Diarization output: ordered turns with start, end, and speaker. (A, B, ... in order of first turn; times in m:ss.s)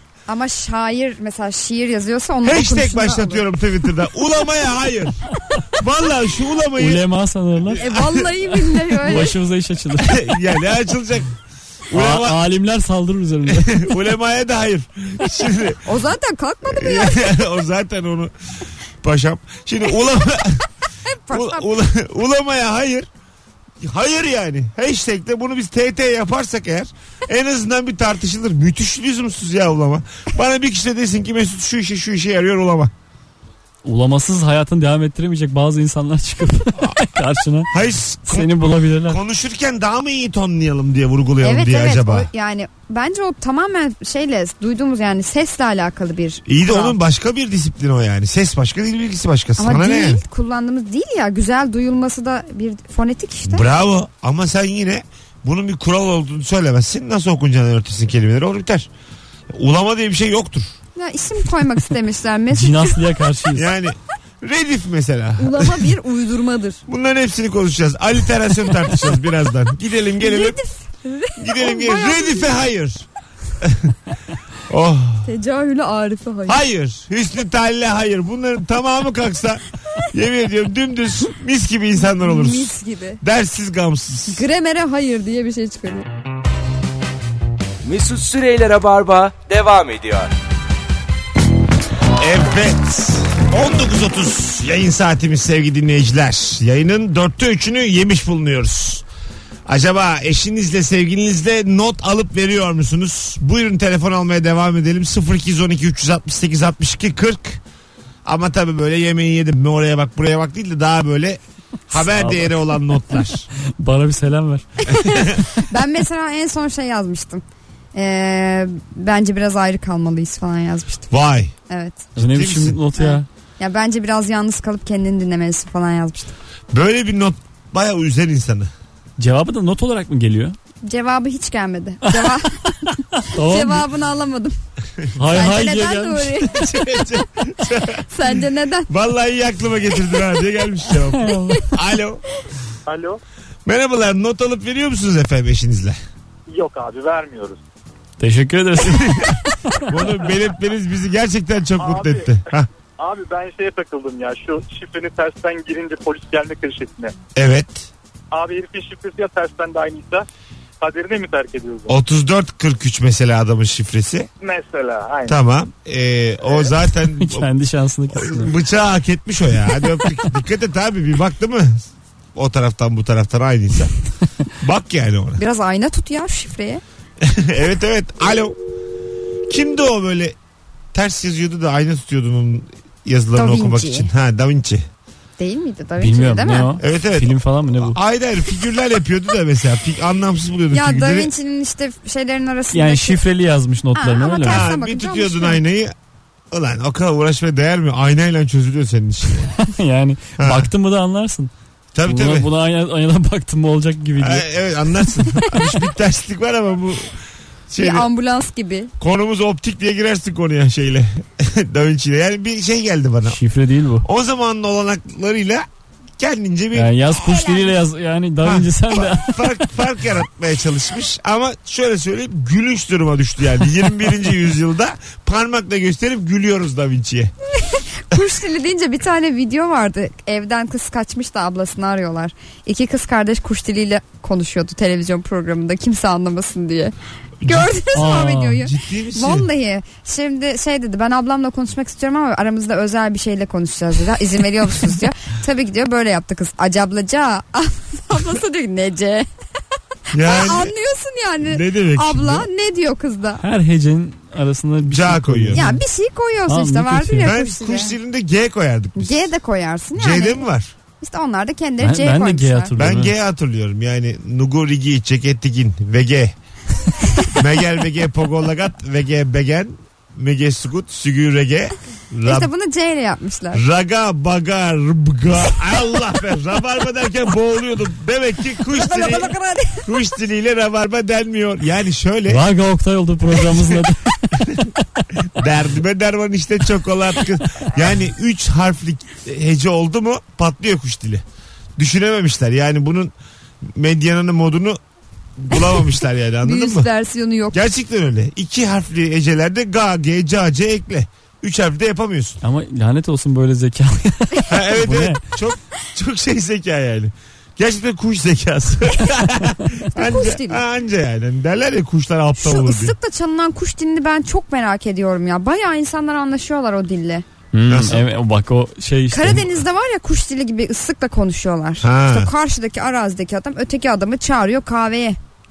0:00.3-0:03.5 A
0:02.4-0:07.0 B
0:06.8-0:07.8 C
0:07.6-0:09.2 B
0:07.8-0:09.3 A
0:09.0-0:10.2 C
0:10.0-0:11.3 B
0:11.9-0:12.4 B
0:11.9-0:14.0 C
0:13.5-0:15.8 B
0:15.8-0:17.4 A
0:16.7-0:18.3 B
0:19.0-0:20.6 B
0:21.1-0:21.7 A
0:21.3-0:23.1 B
0:23.8-0:32.9 B
0:33.8-0:37.8 C
0:36.8-0:37.1 B
0:37.7-0:42.3 B
0:38.3-0:39.2 C
0:41.4-0:47.0 A
0:46.5-0:50.2 B
0:49.6-0:53.7 A
0:53.5-0:58.9 B
0:59.5-1:00.8 B
1:01.0-1:03.1 A
1:02.5-1:03.7 C
1:03.5-1:05.9 B
1:05.4-1:06.8 A
1:06.9-1:10.6 B
1:10.2-1:12.6 A
1:11.4-1:13.0 B
1:13.6-1:14.0 B
1:14.7-1:15.3 B
1:15.2-1:16.6 A
1:16.5-1:24.4 B
1:22.2-1:23.2 A
1:24.3-1:26.1 A
1:27.8-1:30.3 D
1:32.2-1:39.0 B
1:39.7-1:47.6 B
1:48.2-1:53.5 B
1:52.1-1:52.6 C
1:53.8-1:54.9 C
1:54.8-1:57.4 A
1:55.0-1:55.4 B
1:58.0-2:01.1 A
2:01.1-2:01.5 B
2:01.7-2:02.0 A
2:02.2-2:02.8 B
2:02.2-2:03.3 C
2:03.0-2:06.4 A
2:06.7-2:08.7 B
2:09.2-2:10.6 C
2:10.8-2:14.6 A
2:12.0-2:13.9 C
2:15.2-2:16.6 C
2:15.3-2:17.1 A
2:16.5-2:18.1 B
2:17.8-2:18.9 A
2:18.9-2:22.2 B
2:21.0-2:21.7 C
2:23.7-2:26.0 B
2:26.5-2:27.6 E
2:28.2-2:29.4 C
2:28.8-2:32.7 B
2:31.8-2:32.3 E
2:33.0-2:37.1 E
2:37.4-2:37.9 B
2:38.3-2:40.2 E
2:40.8-2:41.9 E
2:41.9-2:44.3 B
2:44.4-2:45.4 E
2:45.3-2:47.5 B
2:47.1-2:48.5 C
2:48.1-2:53.9 B
2:54.6-2:55.4 B
2:55.4-2:56.8 A
2:57.2-2:58.6 B
2:59.5-3:00.4 B
3:00.9-3:04.9 B
3:03.4-3:04.1 A
3:05.4-3:06.7 A
3:06.0-3:08.0 C
3:06.8-3:11.3 B
3:10.7-3:13.2 A
3:12.7-3:14.7 C
3:14.0-3:15.6 A
3:14.4-3:16.0 B
3:16.5-3:19.6 B
3:19.6-3:21.5 C
3:20.4-3:20.7 B
3:21.9-3:22.5 B
3:22.1-3:24.5 C
3:24.2-3:27.2 B
3:27.7-3:28.1 B
3:27.8-3:28.9 A
3:29.0-3:33.4 B
3:33.3-3:34.1 C
3:34.0-3:35.7 B
3:36.2-3:37.4 B
3:36.7-3:39.7 C
3:37.2-3:37.7 A
3:38.4-3:47.3 B
3:47.6-4:09.3 A
3:57.4-3:57.7 B
3:57.9-3:58.7 C
3:58.6-3:59.5 B
4:10.1-4:10.7 B
4:10.2-4:13.4 A
4:11.4-4:12.5 B
4:13.4-4:15.8 C
4:14.8-4:15.7 B
4:15.5-4:18.0 A
4:16.5-4:17.4 C
4:17.2-4:19.3 B
4:19.0-4:20.5 A
4:20.0-4:20.8 B
4:21.0-4:22.7 A
4:21.8-4:23.1 C
4:22.8-4:26.4 B
4:27.3-4:32.5 B
4:32.3-4:33.6 A
4:33.5-4:39.3 B
4:38.6-4:39.9 A
4:39.8-4:42.4 B
4:42.3-4:44.7 C
4:43.4-4:43.8 B
4:45.4-4:51.2 B
4:51.8-4:54.8 B
4:55.4-4:56.9 B
4:56.4-4:57.6 A
4:57.5-5:02.4 B
5:02.4-5:05.2 C
5:04.5-5:13.0 B
5:10.0-5:10.6 A
5:12.4-5:17.2 A
5:17.5-5:19.6 C
5:17.7-5:18.0 B
5:19.1-5:25.2 A
5:21.8-5:22.3 B